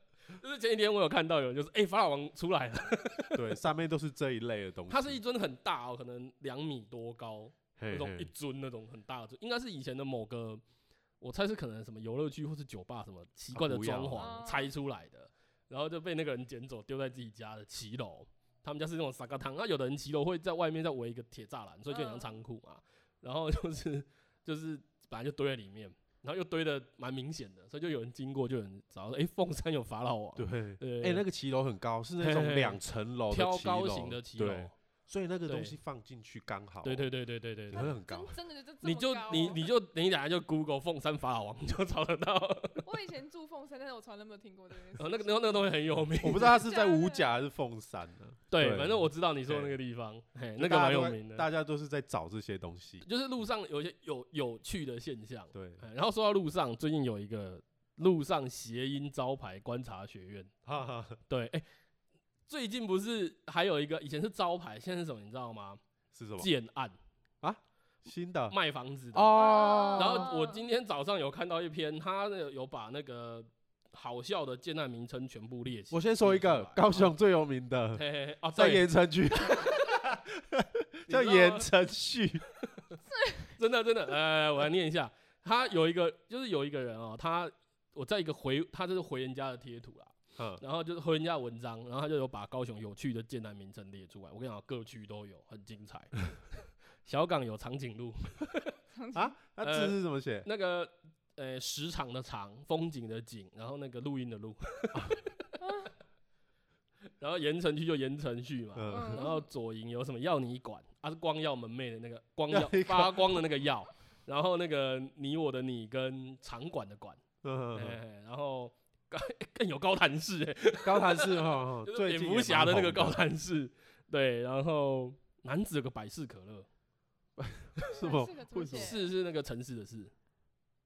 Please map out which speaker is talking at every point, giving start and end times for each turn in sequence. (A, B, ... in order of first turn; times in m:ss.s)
0:00.3-0:03.4 A
0:03.3-0:05.2 B
0:04.9-0:10.6 A
0:07.8-0:08.3 B
0:11.2-0:31.2 A
0:13.5-0:14.5 B
0:14.2-0:14.7 C
0:21.9-0:22.4 C
0:30.4-0:37.1 B
0:32.2-0:32.8 A
0:33.3-0:34.7 A
0:35.5-0:35.8 A
0:36.8-0:37.9 A
0:37.7-0:38.3 B
0:37.8-0:39.6 C
0:38.8-0:42.9 A
0:42.8-0:45.6 C
0:45.0-0:46.6 A
0:46.2-0:49.8 B
0:46.3-0:47.4 C
0:48.5-0:51.5 A
0:50.6-0:53.1 B
0:53.0-1:00.5 A
0:55.5-0:55.8 B
1:00.6-1:01.2 B
1:01.3-1:01.6 A
1:02.5-1:05.8 A
1:06.1-1:06.5 B
1:06.4-1:07.0 A
1:07.4-1:08.6 B
1:08.5-1:17.1 A
1:09.1-1:10.3 B
1:09.4-1:10.6 C
1:15.9-1:22.4 B
1:18.0-1:18.9 A
1:21.1-1:21.7 A
1:23.1-1:23.5 C
1:23.6-1:36.2 A
1:30.4-1:30.6 B
1:37.0-1:38.7 A
1:38.9-1:39.3 C
1:39.1-1:40.5 B
1:39.6-1:45.3 A
1:45.6-1:45.9 C
1:47.2-1:57.2 A
1:48.8-1:49.3 B
1:48.9-1:49.5 C
1:52.5-1:53.4 B
1:57.4-1:58.0 B
1:57.7-2:06.7 A
2:00.8-2:03.3 B
2:07.4-2:09.0 B
2:07.9-2:09.1 C
2:08.7-2:10.1 A